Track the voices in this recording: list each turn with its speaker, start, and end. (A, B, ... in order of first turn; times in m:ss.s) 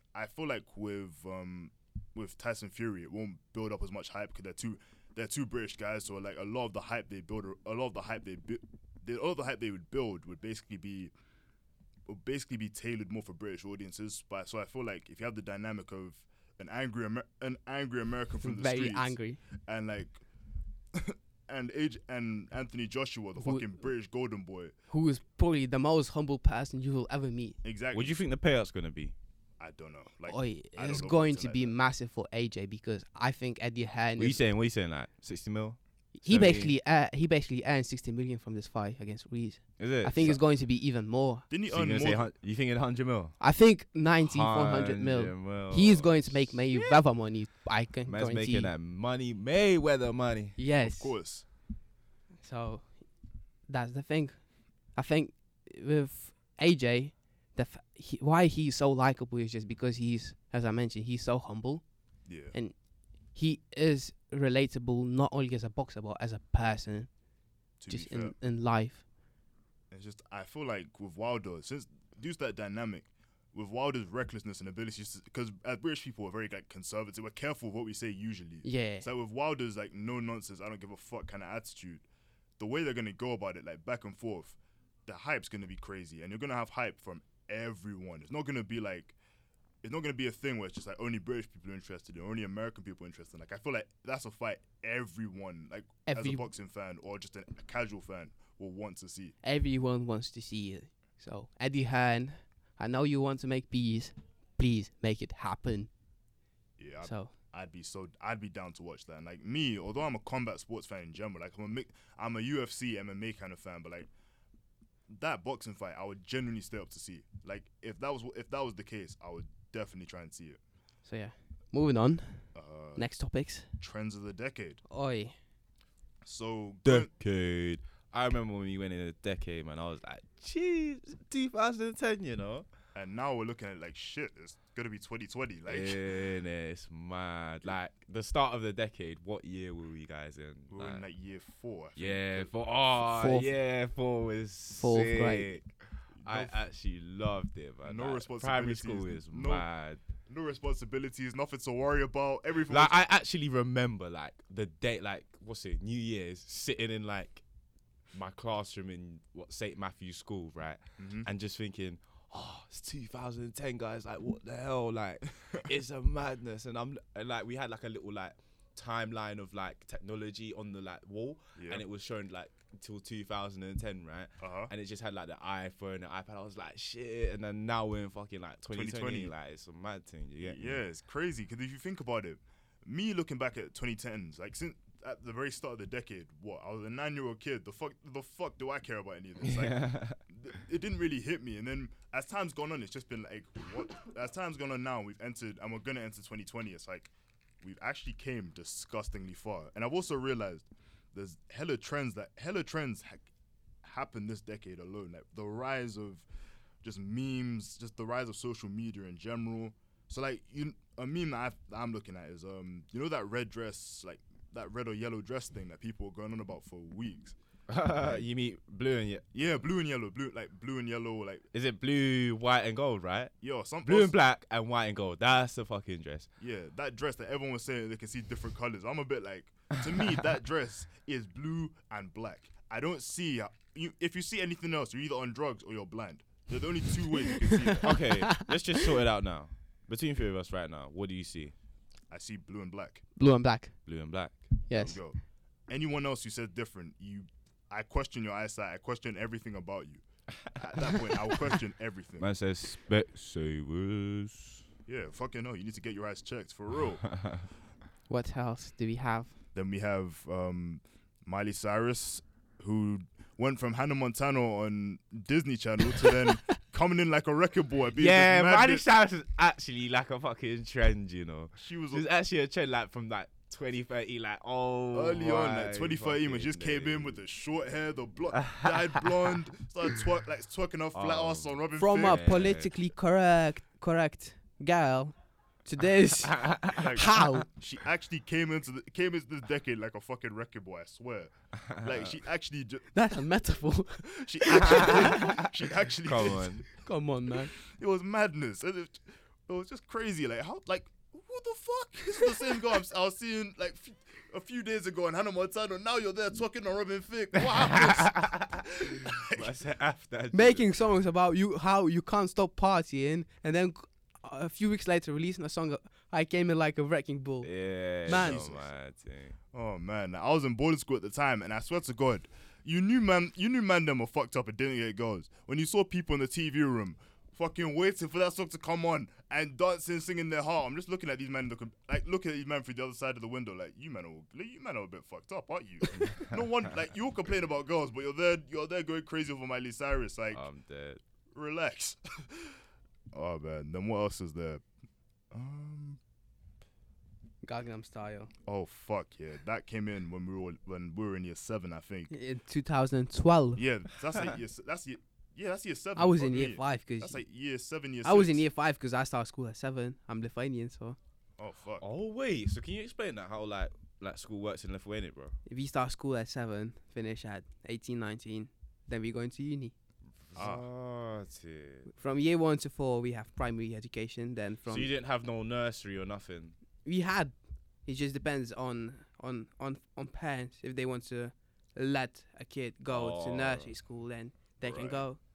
0:00.1-0:11.1 A
0:12.1-0:19.2 A
0:18.4-0:19.4 B
0:19.7-0:20.2 A
0:20.9-0:24.7 A
0:23.4-0:23.7 B
0:24.9-0:27.6 B
0:27.6-0:28.2 A
0:27.9-0:29.1 C
0:29.6-0:31.7 A
0:30.3-0:34.4 B
0:34.2-0:36.7 C
0:36.2-0:41.4 B
0:39.8-0:40.4 C
0:41.5-0:42.3 A
0:41.7-0:43.4 C
0:43.4-0:48.7 B
0:44.2-0:47.0 C
0:48.1-0:50.6 C
0:50.6-0:51.1 B
0:50.8-0:51.4 A
0:52.4-0:53.0 B
0:53.7-1:01.8 B
1:02.2-1:02.5 A
1:02.5-1:02.8 B
1:03.3-1:07.1 B
1:07.8-1:08.4 A
1:07.9-1:09.0 B
1:09.9-1:22.0 A
1:18.6-1:19.0 B
1:22.6-1:29.1 A
1:29.8-1:39.3 A
1:36.0-1:36.5 B
1:39.4-1:45.9 B
1:46.8-1:54.1 A
1:47.0-1:47.3 B
1:55.1-2:00.6 A
2:01.0-2:03.7 B
2:02.5-2:03.0 A
2:03.8-2:04.8 A
2:04.9-2:05.3 B
2:06.2-2:07.1 A
2:06.8-2:12.6 C
2:12.9-2:16.0 A
2:15.7-2:21.0 C
2:20.7-2:23.0 A
2:22.0-2:30.0 C
2:23.1-2:23.5 B
2:24.8-2:25.5 B
2:26.2-2:26.6 A
2:27.8-2:29.6 A
2:30.3-2:33.0 A
2:32.7-2:37.4 C
2:38.1-3:00.8 C
2:41.0-2:41.3 A
2:51.6-2:51.8 A
2:54.4-2:54.7 A
2:58.7-2:59.3 A
3:00.4-3:23.3 A
3:09.5-3:10.2 C
3:23.8-3:26.2 A
3:26.8-3:37.4 A
3:37.7-3:39.2 C
3:38.0-3:38.3 A
3:39.3-3:41.4 A
3:41.5-3:43.3 C
3:43.4-3:44.1 A
3:43.8-3:46.3 C
3:46.4-3:58.2 A
3:57.5-3:58.5 B
3:57.8-4:01.5 C
4:02.1-4:03.0 A
4:03.2-4:03.8 B
4:03.8-4:04.6 C
4:04.7-4:05.0 B
4:04.7-4:05.2 A
4:05.7-4:12.3 A
4:10.4-4:11.2 C
4:12.2-4:14.6 C
4:14.9-4:17.1 A
4:18.1-4:19.3 B
4:19.5-4:28.8 A
4:28.0-4:37.2 C
4:31.6-4:32.0 A
4:34.9-4:42.2 A
4:38.4-4:39.1 C
4:40.9-4:42.7 C
4:41.8-4:47.4 B
4:46.4-4:46.8 C
4:46.8-4:52.9 A
4:51.8-4:52.1 C
4:52.9-4:55.4 B
4:54.2-4:56.6 A
4:54.7-4:55.4 C
4:56.0-4:56.6 C
4:56.8-4:57.5 B
4:57.7-5:09.5 A
5:07.4-5:10.7 C
5:10.3-5:17.5 B
5:17.4-5:19.4 C
5:18.0-5:18.4 B
5:18.1-5:18.6 A
5:19.5-5:40.4 A
5:40.3-5:41.0 C
5:41.3-5:42.6 A
5:43.1-5:44.6 A
5:45.3-5:46.0 A
5:47.4-5:48.3 B
5:48.4-5:52.1 A
5:52.1-5:53.6 B
5:53.6-5:58.4 A
5:56.0-5:57.2 B
5:58.0-6:01.0 B
6:01.4-6:01.8 A
6:01.8-6:05.4 C
6:05.4-6:09.7 B
6:10.3-6:11.9 C
6:10.3-6:10.7 A
6:11.9-6:14.9 B
6:14.7-6:16.5 C
6:16.8-6:17.3 B
6:17.8-6:25.2 B
6:22.9-6:23.7 C
6:24.6-6:25.1 A